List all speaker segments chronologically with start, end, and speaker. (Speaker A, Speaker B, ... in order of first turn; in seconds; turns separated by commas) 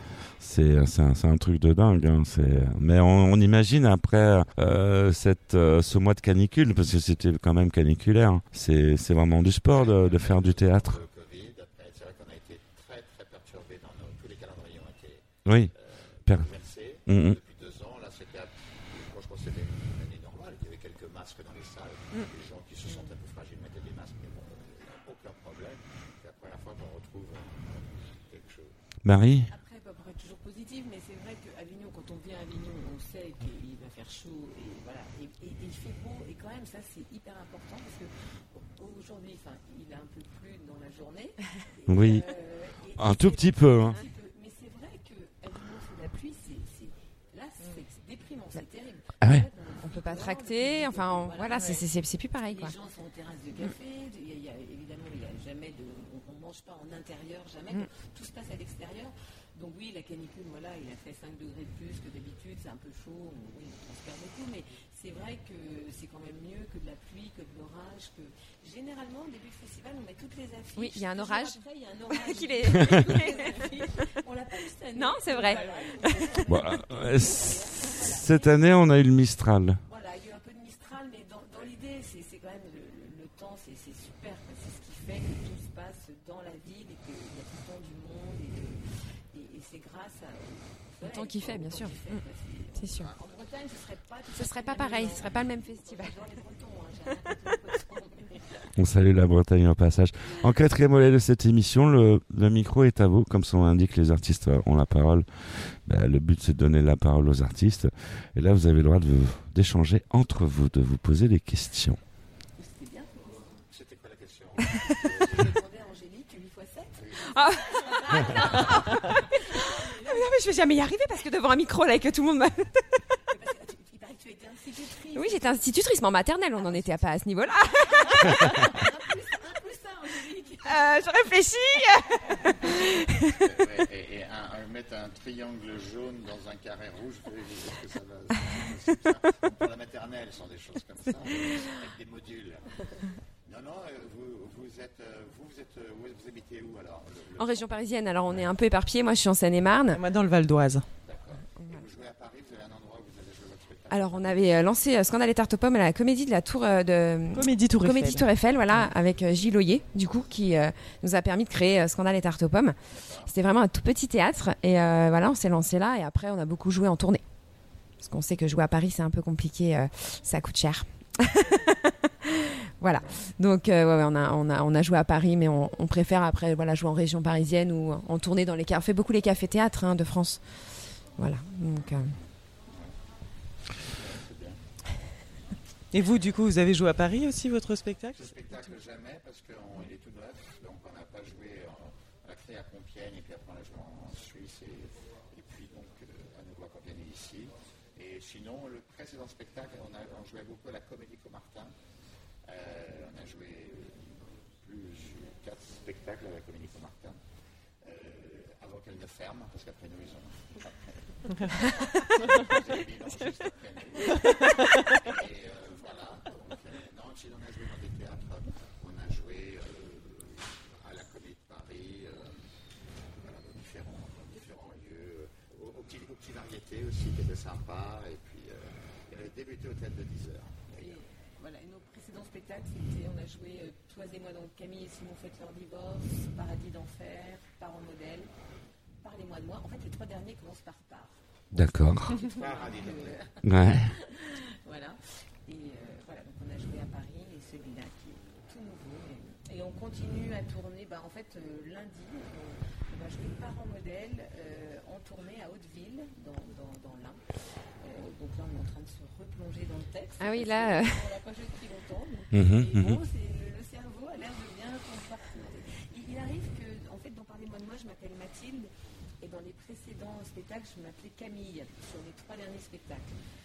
Speaker A: 0.4-11.0, Speaker B: 9.7-28.8, Speaker A: 15.5-15.7, Speaker A: 17.1-17.4, Speaker A: 29.1-29.5, Speaker C: 29.5-51.8, Speaker A: 41.9-42.3, Speaker A: 43.0-44.0, Speaker A: 49.2-49.5, Speaker D: 49.8-52.8, Speaker E: 51.5-51.8, Speaker C: 52.4-78.6, Speaker D: 70.8-73.7, Speaker D: 75.0-76.2, Speaker A: 76.5-79.8, Speaker C: 79.9-98.7, Speaker D: 91.0-92.2, Speaker D: 92.8-93.1, Speaker D: 94.3-96.2, Speaker A: 98.8-112.0, Speaker C: 112.6-113.3, Speaker B: 113.7-115.6, Speaker C: 115.2-120.3, Speaker B: 117.0-118.9, Speaker D: 117.3-123.2, Speaker C: 123.3-125.7, Speaker D: 125.2-128.8, Speaker C: 126.5-127.2, Speaker C: 127.9-130.9, Speaker D: 130.7-133.4, Speaker B: 133.2-148.5, Speaker D: 147.4-150.0, Speaker E: 149.9-150.9, Speaker B: 151.1-154.4, Speaker D: 153.9-167.2, Speaker E: 157.3-158.3, Speaker B: 162.9-163.3, Speaker D: 168.0-180.5, Speaker D: 181.2-182.2, Speaker B: 183.8-184.6, Speaker E: 185.9-188.3, Speaker B: 188.1-201.7, Speaker B: 202.4-207.2, Speaker B: 207.8-222.4, Speaker B: 223.2-231.0, Speaker C: 230.8-238.3, Speaker C: 239.0-241.2, Speaker A: 241.5-242.2, Speaker B: 241.6-243.3, Speaker C: 242.1-257.2, Speaker A: 243.4-243.9, Speaker C: 257.8-268.7, Speaker D: 260.2-261.1, Speaker A: 262.3-263.0, Speaker C: 269.2-273.1